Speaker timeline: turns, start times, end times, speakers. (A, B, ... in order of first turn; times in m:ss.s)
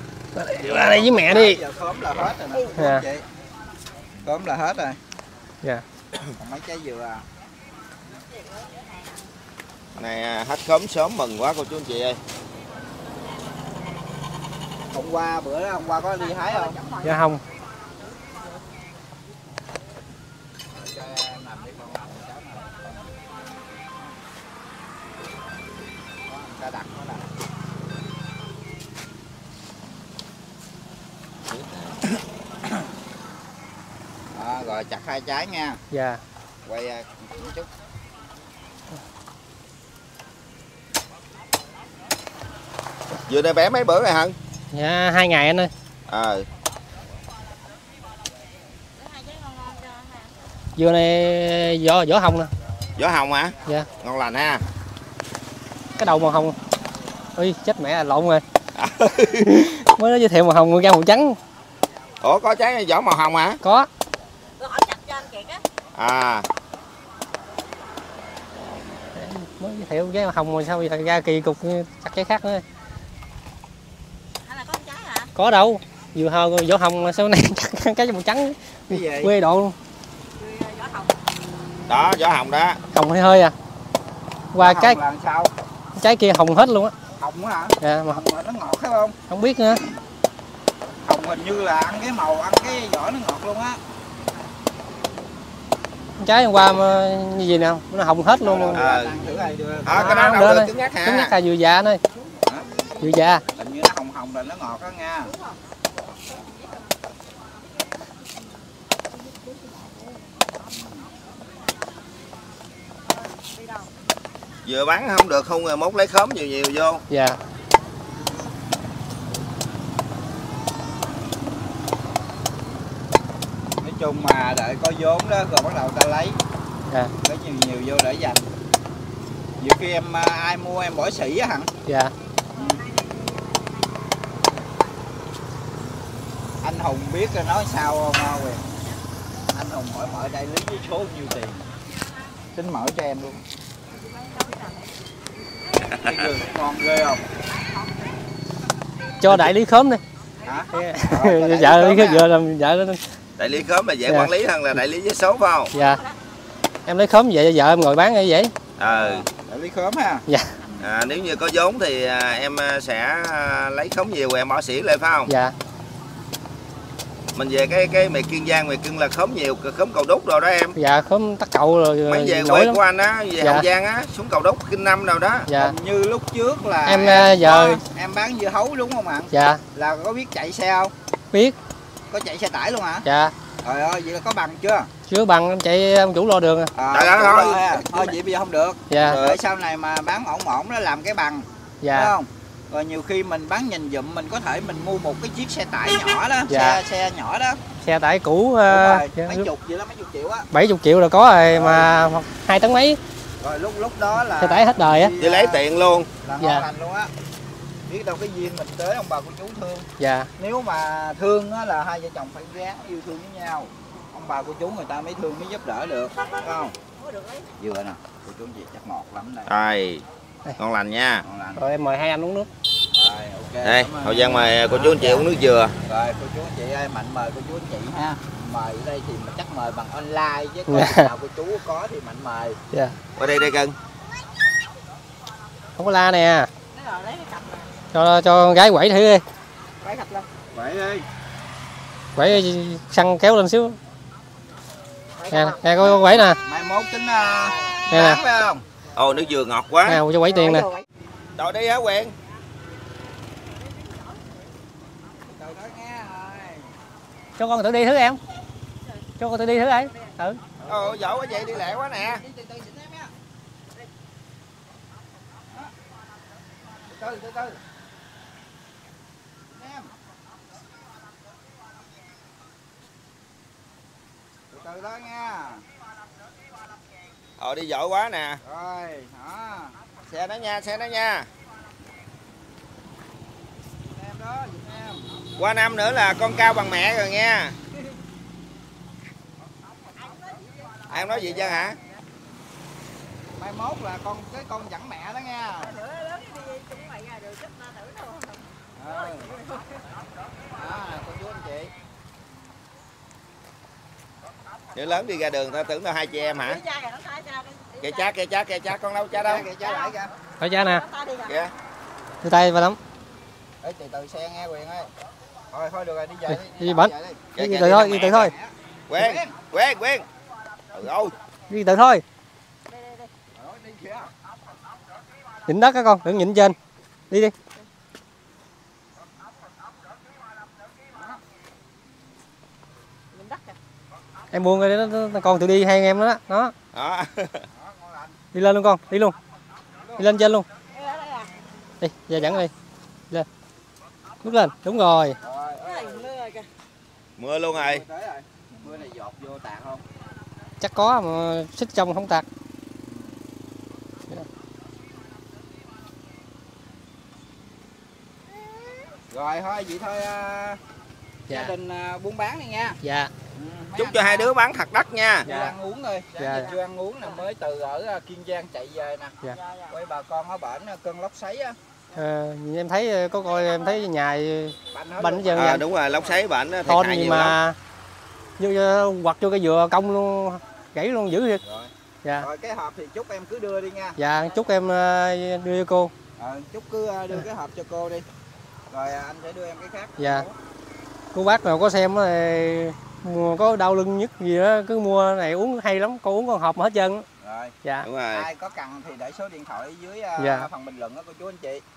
0:00.3-0:01.6 A
0:00.6-0:03.2 B
0:02.8-0:03.1 A
0:04.2-0:05.0 B
0:06.4-0:07.2 B
0:08.1-0:09.2 C
0:10.0-0:12.2 D
0:14.9-0:16.8 B
0:16.2-0:17.2 C
0:17.0-0:17.4 A
0:20.7-0:23.1 B
0:26.2-0:27.3 B
0:31.5-0:32.0 D
0:34.3-0:35.8 B
0:35.9-0:36.2 A
0:36.6-0:37.7 B
0:43.3-0:44.3 D
0:44.7-0:45.7 A
0:46.1-0:46.4 D
0:49.0-0:50.4 C
0:50.8-0:52.5 A
0:53.0-0:54.6 D
0:56.0-0:56.6 A
0:57.4-0:58.4 A
0:58.8-0:59.5 D
0:59.4-1:01.4 A
1:02.2-1:03.6 D
1:03.6-1:03.9 A
1:04.6-1:05.6 C
1:06.0-1:06.4 D
1:09.1-1:12.6 A
1:14.4-1:15.3 C
1:15.3-1:19.7 A
1:18.9-1:19.3 B
1:20.4-1:21.1 C
1:21.9-1:22.8 D
1:22.9-1:23.5 A
1:24.5-1:25.0 A
1:24.6-1:25.5 B
1:26.0-1:26.9 A
1:27.2-1:29.2 B
1:27.8-1:28.2 A
1:29.3-1:29.8 A
1:31.0-1:33.8 B
1:36.2-1:38.8 A
1:38.3-1:40.2 B
1:38.7-1:39.2 D
1:39.8-1:41.3 D
1:39.9-1:42.0 A
1:43.0-1:43.4 A
1:43.6-1:45.3 B
1:50.8-1:51.0 B
1:53.3-1:53.8 C
1:54.6-1:57.0 D
1:57.1-1:57.4 A
2:03.8-2:06.4 B
2:07.2-2:08.4 B
2:09.6-2:11.7 B
2:11.8-2:12.1 A
2:12.5-2:13.8 C
2:12.5-2:12.8 B
2:16.6-2:18.6 B
2:19.5-2:21.6 B
2:22.5-2:23.4 B
2:24.1-2:24.9 C
2:26.0-2:27.2 B
2:27.6-2:28.0 C
2:29.2-2:30.0 A
2:30.4-2:30.7 C
2:30.4-2:32.3 B
2:30.7-2:33.0 A
2:33.4-2:35.7 D
2:35.7-2:36.0 A
2:35.7-2:36.1 C
2:36.8-2:38.5 A
2:38.8-2:39.2 D
2:38.8-2:40.2 B
2:40.3-2:40.6 A
2:40.8-2:45.3 D
2:45.3-2:45.5 A
2:47.3-2:50.8 D
2:50.8-2:52.8 A
2:52.0-2:55.5 D
2:55.5-2:55.7 A
2:55.5-3:00.9 B
2:56.8-2:57.8 A
2:59.3-2:59.6 A
3:02.1-3:03.0 B
3:03.0-3:03.3 A
3:03.6-3:04.9 B
3:05.1-3:06.7 A
3:06.7-3:17.6 B
3:06.9-3:08.1 D
3:08.9-3:09.2 A
3:09.0-3:09.4 D
3:11.8-3:12.1 A
3:16.5-3:16.8 A
3:17.8-3:19.5 A
3:18.7-3:20.5 B
3:20.5-3:23.0 A
3:21.5-3:21.9 B
3:23.4-3:25.6 B
3:24.2-3:25.1 A
3:25.2-3:26.1 D
3:26.2-3:27.1 B
3:26.4-3:26.7 A
3:27.9-3:29.9 B
3:30.0-3:30.3 A
3:30.4-3:36.7 B
3:37.0-3:37.5 C
3:37.6-3:39.5 B
3:39.5-3:40.0 D
3:40.6-3:41.2 D
3:41.2-3:41.6 B
3:41.6-3:42.5 A
3:42.9-3:52.6 B
3:43.6-3:45.8 D
3:50.7-3:51.1 A
3:52.7-3:53.0 A
3:53.2-3:53.7 D
3:55.8-3:56.5 A
3:56.7-3:57.7 C
3:57.9-3:59.2 A
3:59.8-4:00.3 C
4:00.5-4:01.0 B
4:02.2-4:03.8 A
4:05.2-4:05.6 C
4:05.3-4:06.4 A
4:05.6-4:08.6 B
4:07.9-4:08.2 A
4:08.9-4:10.0 D
4:09.8-4:10.7 A
4:10.4-4:10.8 C
4:11.4-4:12.1 D
4:13.7-4:14.2 C
4:15.2-4:16.7 B
4:17.4-4:18.2 A
4:19.2-4:20.4 A
4:20.6-4:23.1 B
4:20.7-4:22.2 D
4:26.9-4:27.6 B
4:29.5-4:29.9 B
4:34.5-4:35.6 B
4:37.4-4:38.4 D
4:38.4-4:39.8 B
4:40.1-4:41.3 D
4:43.8-4:45.1 B
4:45.4-4:47.6 D
4:49.9-4:50.8 C
4:50.9-4:51.8 D
4:50.9-4:51.7 B
4:53.4-4:55.8 B
4:55.6-4:59.8 C
4:58.8-4:59.3 B
5:00.5-5:01.7 B
5:04.7-5:06.6 D
5:06.4-5:08.2 C
5:07.8-5:09.5 D
5:09.1-5:10.1 B
5:09.6-5:09.9 C
5:10.4-5:10.8 A
5:10.6-5:11.3 C
5:11.3-5:11.5 D
5:12.2-5:12.8 A
5:13.6-5:14.9 B
5:15.5-5:17.3 B
5:16.3-5:18.3 A
5:17.3-5:18.2 D
5:17.9-5:19.4 B
5:18.9-5:20.0 D
5:20.7-5:21.1 D
5:21.5-5:22.0 A
5:22.7-5:23.1 C
5:23.3-5:24.1 B
5:25.5-5:26.6 A
5:33.1-5:33.6 C
5:34.3-5:36.5 A
5:36.7-5:37.5 D
5:37.5-5:38.2 B
5:38.3-5:39.1 A
5:39.8-5:40.1 B
5:40.0-5:40.4 A
5:40.7-5:41.3 C
5:41.8-5:42.5 A
5:44.2-5:45.2 A
5:45.2-5:46.1 B
5:45.6-5:46.5 C
5:47.2-5:47.8 D
5:47.5-5:49.8 B
5:50.6-5:52.2 A
5:52.9-5:53.2 B
5:59.1-6:00.6 B
6:01.3-6:01.5 A
6:01.3-6:02.8 B
6:02.8-6:03.1 A
6:03.4-6:04.3 B
6:03.8-6:05.3 D
6:05.2-6:09.1 B
6:05.2-6:05.5 A
6:06.2-6:06.5 A
6:06.2-6:07.2 C
6:09.2-6:09.7 C
6:09.7-6:11.6 B
6:11.9-6:15.6 A
6:14.7-6:15.8 B
6:15.3-6:17.3 D
6:16.6-6:17.6 A
6:18.4-6:21.4 A
6:21.4-6:24.0 B
6:24.0-6:25.9 A
6:26.2-6:28.0 B
6:28.7-6:30.3 B
6:30.0-6:30.3 A
6:31.1-6:37.0 A
6:37.2-6:37.5 B
6:37.8-6:38.3 D
6:38.1-6:41.6 B
6:40.2-6:40.5 A